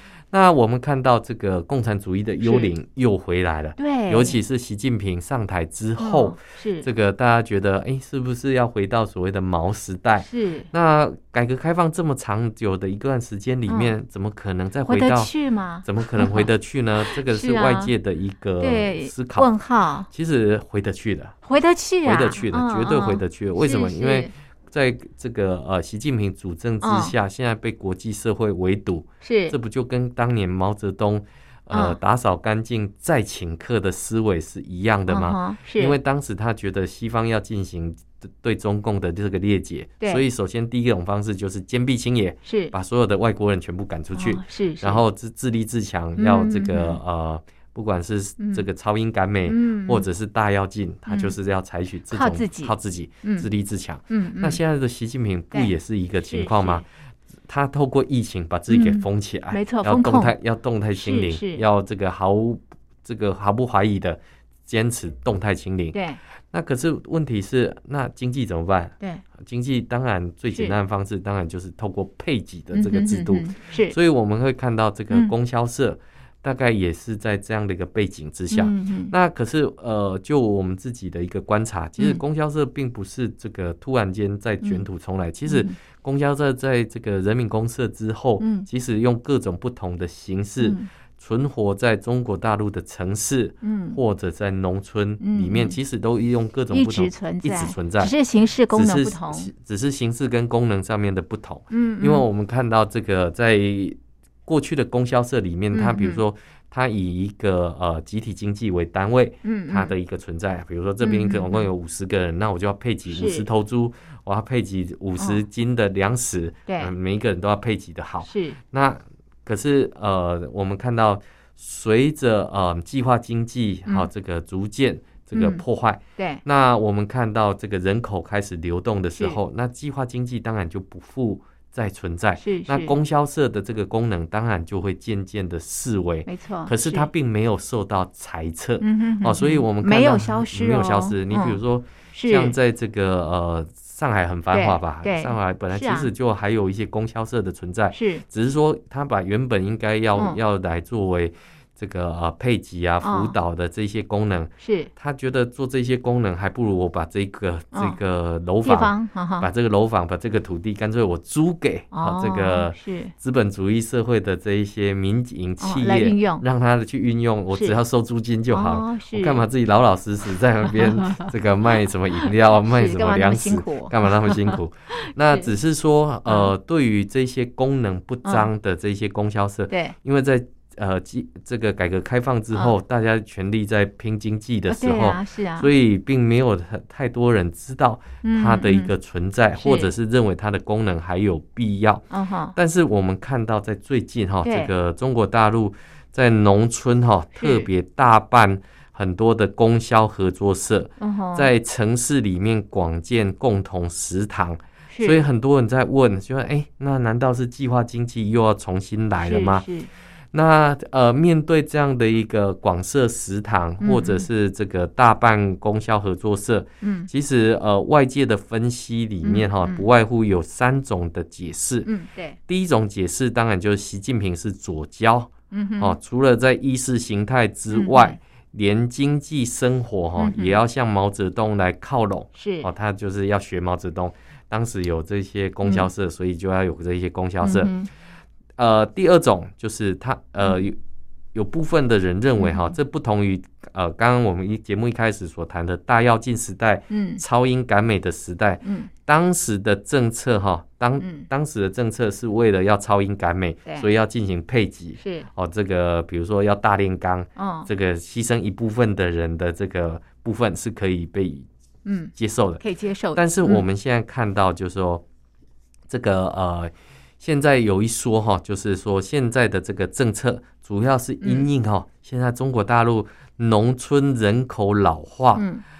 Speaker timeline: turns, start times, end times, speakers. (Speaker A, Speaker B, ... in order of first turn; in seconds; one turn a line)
Speaker A: 0.3-15.3
Speaker B: 2.4-2.7
Speaker B: 3.8-4.4
Speaker B: 6.0-6.8
Speaker B: 10.2-10.7
Speaker B: 13.7-13.9
Speaker B: 14.8-16.5
Speaker A: 15.8-19.5
Speaker B: 17.1-17.9
Speaker B: 18.6-20.1
Speaker A: 20.1-21.4
Speaker B: 21.4-24.3
Speaker A: 22.0-56.9
Speaker B: 26.8-27.1
Speaker B: 29.2-29.5
Speaker B: 31.7-32.0
Speaker B: 35.1-36.0
Speaker B: 42.4-42.7
Speaker B: 44.1-45.0
Speaker B: 46.2-47.0
Speaker B: 48.4-48.6
Speaker B: 49.5-50.0
Speaker B: 51.1-51.3
Speaker B: 52.1-53.5
Speaker B: 54.1-54.6
Speaker B: 55.5-56.8
Speaker A: 57.5-66.0
Speaker B: 58.7-60.3
Speaker B: 60.9-61.6
Speaker B: 65.9-66.2
Speaker A: 66.5-98.1
Speaker B: 72.7-73.9
Speaker B: 78.5-79.1
Speaker B: 85.5-85.7
Speaker B: 88.4-88.7
Speaker B: 90.6-90.9
Speaker B: 93.6-94.0
Speaker B: 95.2-95.8
Speaker B: 96.7-99.5
Speaker A: 98.7-209.7
Speaker B: 101.7-102.2
Speaker B: 105.7-106.2
Speaker B: 109.4-109.9
Speaker B: 111.0-111.7
Speaker B: 113.1-113.5
Speaker B: 116.7-116.9
Speaker B: 118.2-118.6
Speaker B: 125.3-125.6
Speaker B: 126.2-126.4
Speaker B: 132.4-132.9
Speaker B: 136.2-137.1
Speaker B: 138.8-141.6
Speaker B: 142.1-142.6
Speaker B: 144.5-146.1
Speaker B: 147.9-148.2
Speaker B: 153.0-153.3
Speaker B: 154.6-154.9
Speaker B: 157.7-158.0
Speaker B: 158.6-159.5
Speaker B: 161.9-163.1
Speaker B: 165.6-166.4
Speaker B: 167.5-167.8
Speaker B: 168.5-169.4
Speaker B: 170.7-171.3
Speaker B: 172.2-175.5
Speaker B: 176.2-176.5
Speaker B: 179.7-179.9
Speaker B: 184.7-185.7
Speaker B: 188.2-188.9
Speaker B: 189.5-189.9
Speaker B: 192.1-192.6
Speaker B: 194.4-194.7
Speaker B: 197.3-197.7
Speaker B: 201.0-201.5
Speaker B: 204.9-205.2
Speaker B: 209.2-209.9
Speaker A: 210.3-221.9
Speaker B: 213.8-214.3
Speaker B: 216.8-217.1
Speaker B: 219.2-219.9
Speaker B: 221.8-222.4
Speaker A: 222.5-237.7
Speaker B: 225.5-226.0
Speaker B: 227.7-228.2
Speaker B: 230.2-230.6
Speaker B: 232.3-232.7
Speaker B: 235.6-235.9
Speaker B: 237.4-237.9
Speaker A: 238.6-240.8
Speaker A: 241.3-261.4
Speaker B: 242.4-242.7
Speaker B: 246.9-247.2
Speaker B: 248.6-248.9
Speaker B: 251.0-251.2
Speaker B: 255.0-255.3
Speaker B: 257.4-257.7
Speaker B: 261.8-263.6
Speaker A: 262.1-262.6
Speaker A: 263.1-265.0
Speaker A: 265.9-275.4
Speaker B: 271.2-271.4
Speaker B: 275.3-275.6